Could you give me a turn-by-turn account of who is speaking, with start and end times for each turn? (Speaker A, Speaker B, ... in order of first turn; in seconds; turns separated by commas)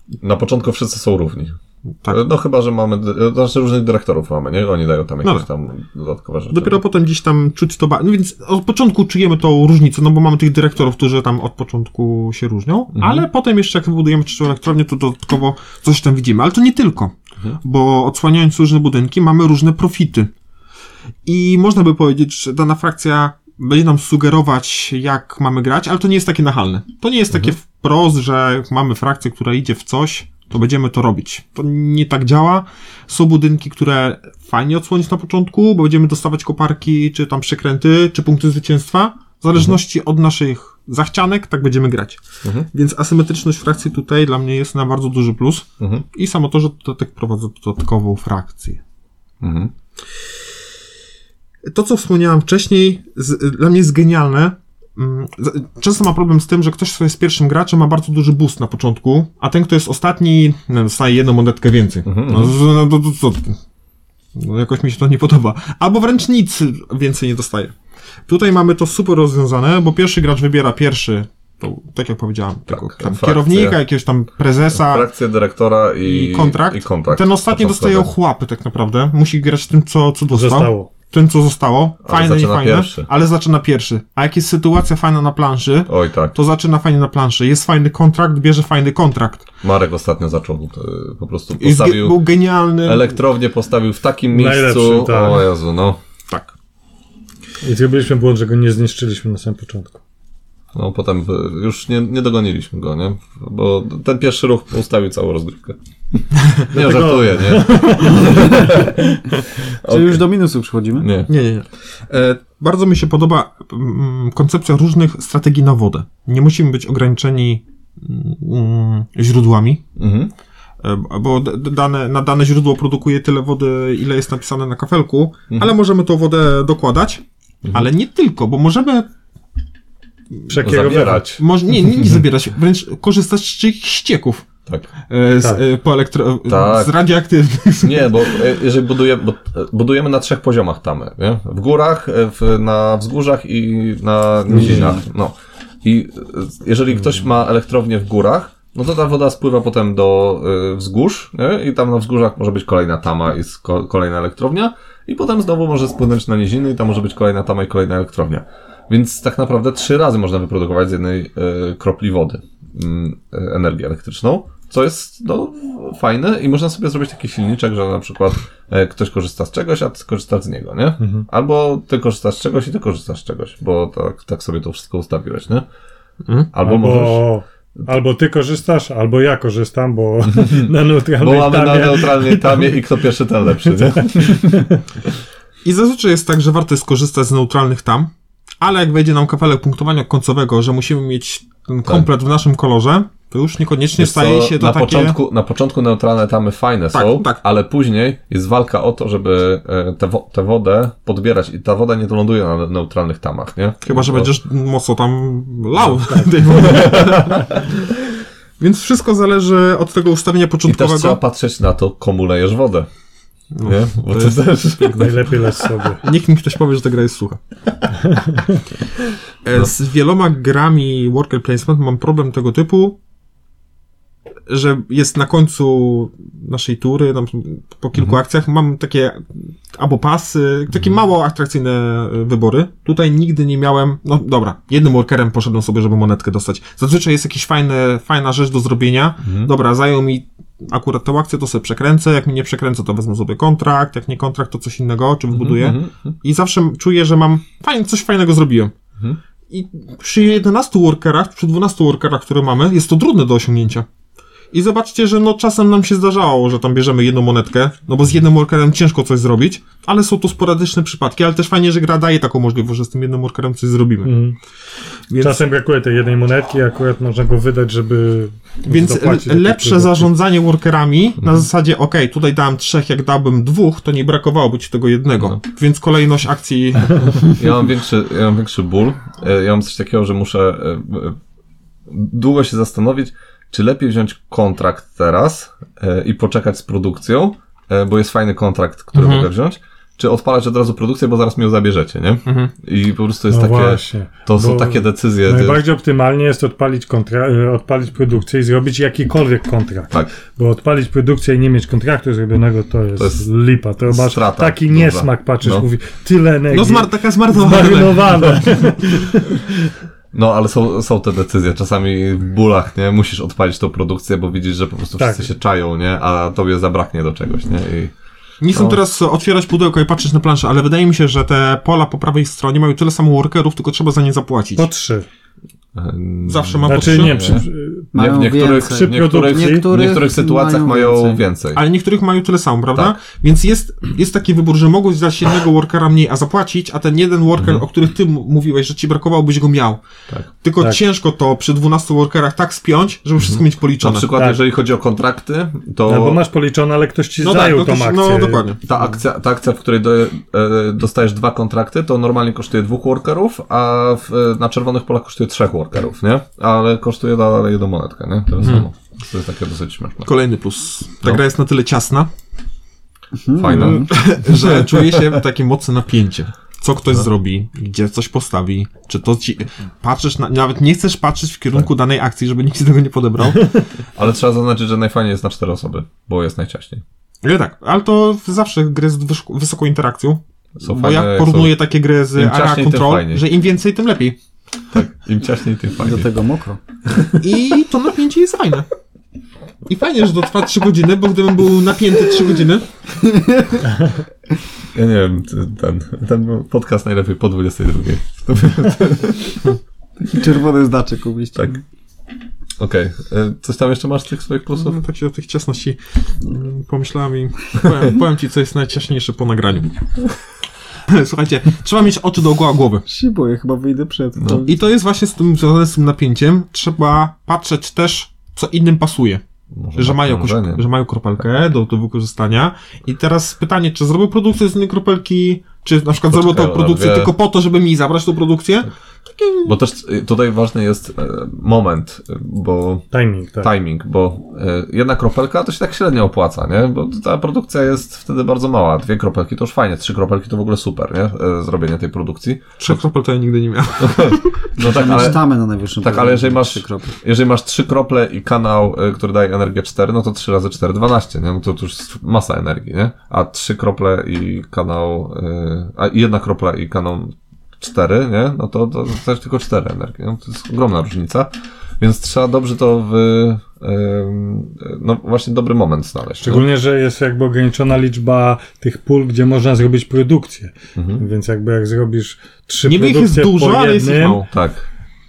Speaker A: 0.2-6.8, Speaker B: 6.5-20.3, Speaker A: 12.9-13.3, Speaker B: 21.3-42.2, Speaker A: 42.4-42.7, Speaker B: 42.7-48.8, Speaker A: 45.8-46.0, Speaker A: 49.4-49.7, Speaker B: 51.6-63.6, Speaker A: 62.0-62.5, Speaker B: 64.3-67.7, Speaker B: 68.3-75.1, Speaker A: 72.7-73.8, Speaker A: 74.7-78.1, Speaker B: 76.0-89.5, Speaker C: 80.3-80.9, Speaker A: 82.0-83.1, Speaker A: 85.9-86.3, Speaker A: 89.6-92.2, Speaker B: 91.6-93.1, Speaker A: 92.8-96.0, Speaker C: 94.3-95.5, Speaker C: 97.6-100.0, Speaker A: 100.7-105.8, Speaker A: 106.6-109.0, Speaker C: 106.7-108.9, Speaker D: 108.2-108.8, Speaker A: 109.8-110.2, Speaker D: 109.9-111.1, Speaker A: 111.0-111.3, Speaker B: 111.3-119.8, Speaker A: 120.0-120.3, Speaker B: 120.8-129.1, Speaker A: 127.6-127.9, Speaker B: 130.5-134.5, Speaker C: 130.5-131.3, Speaker A: 130.6-131.4, Speaker B: 135.1-138.4, Speaker A: 136.5-137.0, Speaker A: 137.8-175.7, Speaker C: 144.6-145.0, Speaker C: 171.0-171.3, Speaker A: 176.5-177.3, Speaker C: 176.6-182.8, Speaker A: 180.2-184.7, Speaker C: 183.9-184.8, Speaker B: 185.6-188.1, Speaker B: 188.6-195.2, Speaker A: 194.0-204.3, Speaker B: 196.9-197.4, Speaker B: 203.8-207.8, Speaker A: 205.8-207.6, Speaker C: 206.1-206.9, Speaker B: 208.6-211.2, Speaker A: 210.7-212.9, Speaker B: 213.5-215.1, Speaker A: 213.7-215.4, Speaker C: 214.9-216.0, Speaker B: 216.0-217.4, Speaker C: 218.1-218.5, Speaker B: 219.4-223.0, Speaker B: 224.5-248.7, Speaker A: 239.2-239.5, Speaker A: 245.3-246.2, Speaker B: 249.5-253.9, Speaker B: 254.5-264.1, Speaker C: 264.0-264.4, Speaker B: 265.1-265.4, Speaker C: 265.2-270.1, Speaker B: 268.6-277.4, Speaker A: 277.3-281.2, Speaker A: 281.9-295.6, Speaker B: 288.9-289.3, Speaker B: 292.3-292.5, Speaker C: 293.3-309.5, Speaker A: 303.0-303.3, Speaker A: 303.9-305.7, Speaker B: 306.5-308.4, Speaker A: 310.1-317.9, Speaker C: 315.0-315.3, Speaker B: 318.4-324.7, Speaker A: 318.5-318.8, Speaker C: 324.6-325.1, Speaker A: 325.8-331.6, Speaker B: 326.3-327.2, Speaker C: 326.7-327.9, Speaker D: 327.9-331.2, Speaker C: 328.5-329.6, Speaker B: 331.5-339.8, Speaker A: 337.4-337.6, Speaker B: 340.4-344.1, Speaker A: 343.2-346.2, Speaker C: 344.1-344.4, Speaker C: 345.9-348.8, Speaker B: 347.2-348.6, Speaker A: 348.6-360.1, Speaker B: 358.4-358.7, Speaker B: 360.1-362.1, Speaker D: 363.2-363.9, Speaker A: 363.4-365.2, Speaker B: 363.5-373.6, Speaker A: 373.9-376.8, Speaker B: 377.2-384.2, Speaker A: 380.6-381.6, Speaker A: 382.1-383.2, Speaker A: 384.7-386.1, Speaker D: 385.8-386.6, Speaker B: 387.2-388.7, Speaker B: 389.7-392.7, Speaker D: 393.0-393.7, Speaker A: 394.7-399.5, Speaker D: 400.0-401.6, Speaker A: 402.6-404.8, Speaker B: 404.6-409.7, Speaker B: 410.9-412.9, Speaker D: 412.9-414.6, Speaker A: 414.2-414.4, Speaker B: 414.4-419.2, Speaker A: 419.5-420.6, Speaker B: 419.8-429.5, Speaker A: 426.1-427.1, Speaker A: 429.4-432.9, Speaker C: 432.9-433.5, Speaker A: 433.4-442.8, Speaker B: 442.6-444.4, Speaker A: 443.8-445.2, Speaker D: 444.6-446.9, Speaker A: 445.8-466.5, Speaker C: 466.2-474.2, Speaker A: 470.8-471.0, Speaker B: 472.6-474.3, Speaker A: 474.3-474.7